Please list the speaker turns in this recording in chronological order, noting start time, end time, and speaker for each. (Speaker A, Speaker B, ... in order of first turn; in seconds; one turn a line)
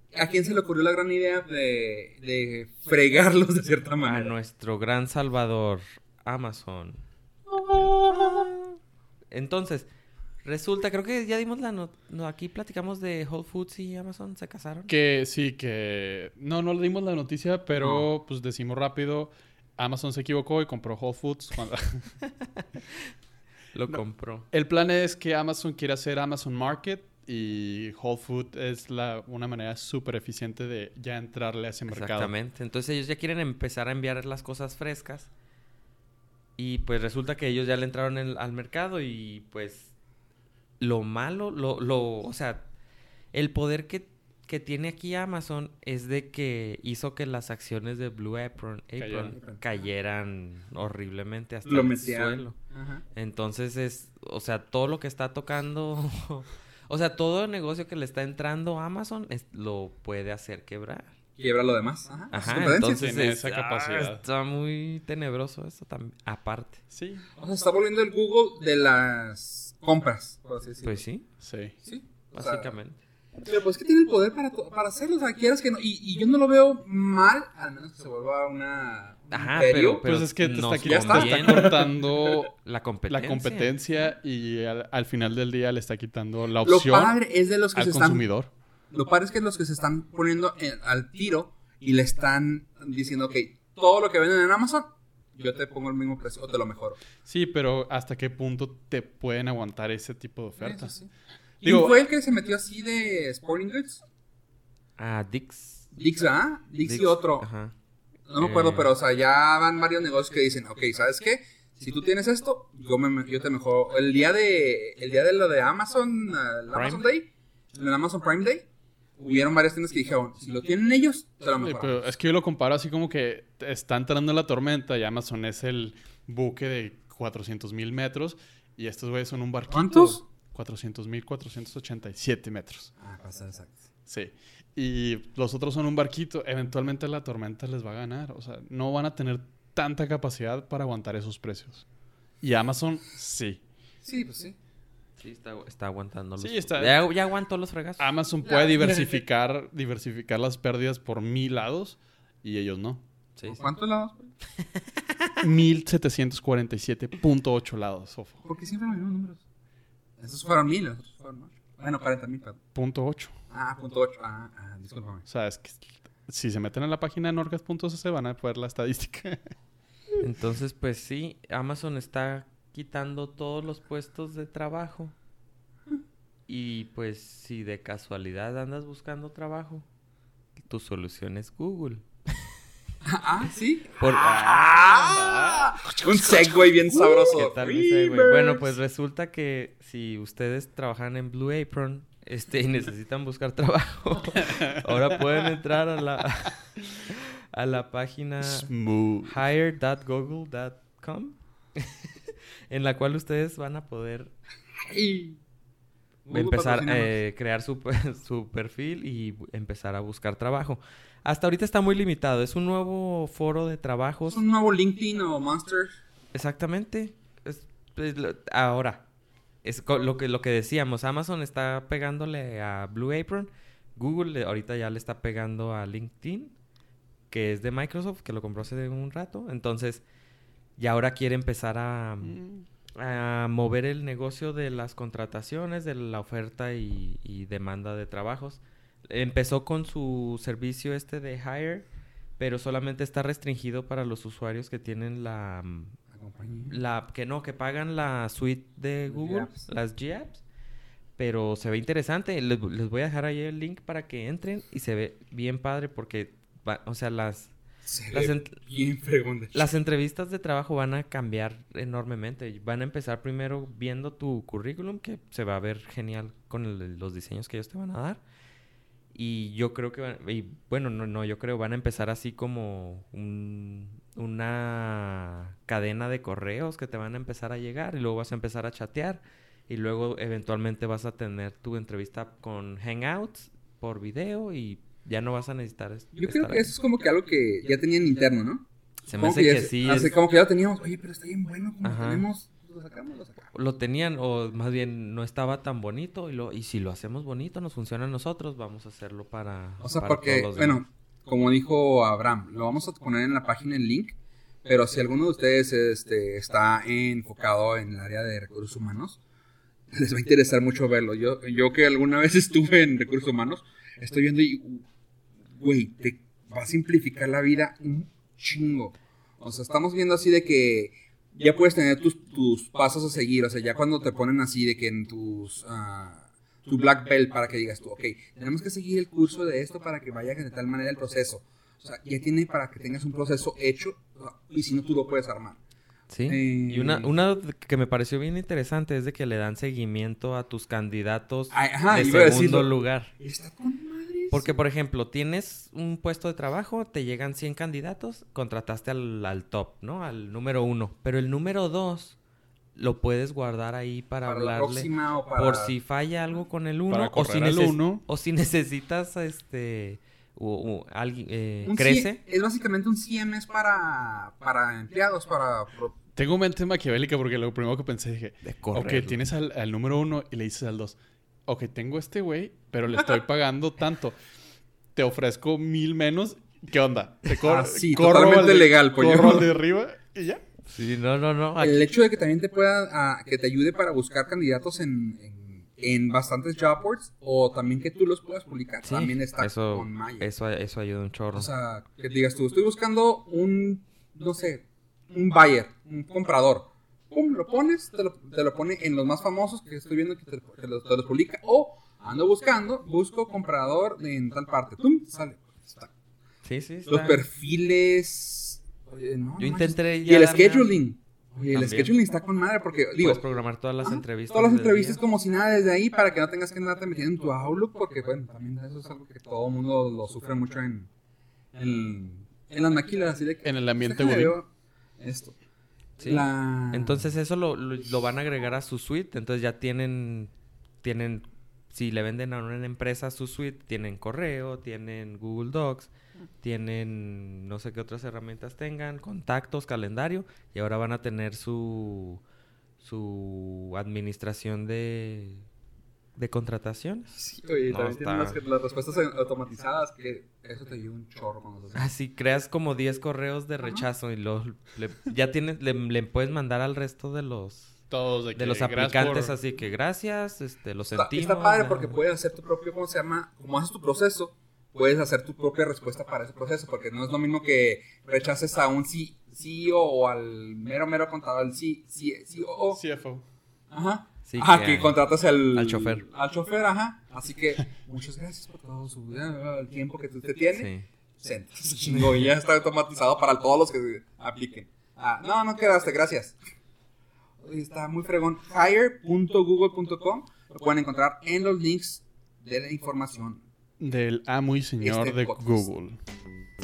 Speaker A: 0.1-4.3
Speaker B: 4.0-7.0
Speaker A: 7.5-8.5
Speaker B: 7.7-8.7
Speaker B: 9.3-9.9
Speaker B: 10.4-14.9
Speaker C: 14.9-22.1
Speaker B: 17.8-18.1
Speaker B: 22.2-23.0
Speaker B: 23.7-24.5
Speaker C: 24.5-32.3
Speaker B: 31.9-35.3
Speaker B: 36.6-39.9
Speaker B: 40.8-42.7
Speaker B: 43.3-52.5
Speaker C: 49.0-49.3
Speaker A: 49.3-49.8
Speaker A: 51.7-53.0
Speaker B: 53.1-61.1
Speaker A: 61.4-63.0
Speaker B: 62.3-66.8
Speaker C: 62.6-64.2
Speaker C: 66.9-67.3
Speaker A: 67.4-71.0
Speaker B: 70.8-71.3
Speaker C: 71.4-71.8
Speaker A: 71.8-72.7
Speaker B: 72.3-73.0
Speaker A: 73.4-80.0
Speaker B: 79.3-81.8
Speaker C: 80.0-82.5
Speaker A: 80.8-82.5
Speaker B: 82.6-83.8
Speaker C: 83.1-87.2
Speaker A: 86.6-88.3
Speaker C: 87.7-88.5
Speaker A: 88.9-97.0
Speaker C: 97.2-100.9
Speaker A: 100.6-101.1
Speaker A: 101.6-104.0
Speaker C: 101.6-102.0
Speaker B: 105.0-105.9
Speaker A: 105.9-107.5
Speaker B: 106.8-107.7
Speaker A: 108.3-118.7
Speaker B: 108.4-108.9
Speaker B: 116.7-117.0
Speaker A: 119.2-122.1
Speaker C: 121.6-132.9
Speaker A: 129.7-130.2
Speaker A: 133.0-133.8
Speaker C: 134.1-141.8
Speaker C: 142.4-143.6
Speaker A: 144.0-144.6
Speaker B: 145.2-148.1
Speaker C: 146.4-147.0
Speaker C: 148.0-153.0
Speaker A: 148.4-149.2
Speaker B: 153.4-153.6
Speaker A: 153.4-154.3
Speaker B: 154.6-155.4
Speaker C: 155.4-158.4
Speaker A: 158.4-159.4
Speaker A: 160.2-162.6
Speaker C: 162.8-163.3
Speaker A: 163.5-165.2
Speaker C: 165.3-169.5
Speaker B: 170.2-175.2
Speaker B: 176.5-179.8
Speaker B: 180.7-182.1
Speaker A: 183.0-188.7
Speaker B: 184.0-184.5
Speaker C: 184.4-185.9
Speaker B: 187.3-198.7
Speaker C: 194.6-195.2
Speaker C: 198.4-199.4
Speaker B: 199.2-204.3
Speaker A: 204.8-205.4
Speaker A: 206.3-207.1
Speaker B: 206.3-214.4
Speaker A: 214.3-215.9
Speaker B: 216.3-219.1
Speaker B: 219.6-226.6
Speaker B: 227.3-230.0
Speaker B: 230.8-232.4
Speaker C: 232.2-232.7
Speaker B: 232.9-241.9
Speaker B: 242.4-246.0
Speaker A: 246.1-246.8
Speaker B: 246.7-250.4
Speaker A: 249.1-249.7
Speaker B: 251.2-257.6
Speaker A: 257.8-259.7
Speaker B: 258.1-258.6
Speaker B: 259.5-268.2
Speaker B: 269.1-286.7
Speaker A: 286.1-293.4
Speaker B: 289.1-290.1
Speaker B: 291.8-292.2
Speaker B: 293.5-300.8
Speaker A: 299.8-309.2
Speaker A: 309.9-314.8
Speaker A: 315.6-335.6
Speaker B: 336.1-343.1
Speaker A: 336.3-337.1
Speaker A: 341.5-344.6
Speaker B: 344.3-352.2
Speaker B: 352.8-362.2
Speaker A: 354.2-355.7
Speaker C: 356.9-358.1
Speaker A: 361.6-366.0
Speaker C: 366.2-371.0
Speaker B: 368.4-369.2
Speaker C: 371.5-374.2
Speaker C: 374.9-380.4
Speaker A: 377.4-379.5
Speaker B: 380.7-381.9
Speaker A: 381.6-390.3
Speaker B: 388.8-391.5
Speaker A: 391.3-405.9
Speaker B: 406.4-407.2
Speaker A: 406.9-413.2
Speaker B: 409.4-410.7
Speaker B: 411.4-411.9
Speaker B: 413.0-415.0
Speaker A: 413.8-420.9
Speaker A: 421.5-424.5
Speaker C: 423.4-424.4
Speaker A: 425.0-425.4
Speaker B: 426.0-430.3
Speaker A: 426.0-427.1
Speaker B: 430.8-435.9
Speaker B: 436.4-442.2
Speaker B: 442.8-445.5
Speaker B: 446.2-448.4
Speaker A: 447.1-451.9
Speaker B: 451.8-457.7
Speaker A: 453.6-453.9
Speaker C: 457.9-459.4
Speaker B: 458.4-462.0
Speaker A: 461.0-472.8
Speaker C: 472.7-473.3
Speaker A: 473.7-480.7
Speaker B: 474.3-475.0
Speaker B: 475.5-476.1
Speaker B: 480.5-480.9
Speaker A: 481.2-486.4
Speaker B: 481.9-482.3
Speaker A: 487.4-493.4
Speaker C: 493.8-496.0
Speaker A: 494.8-495.7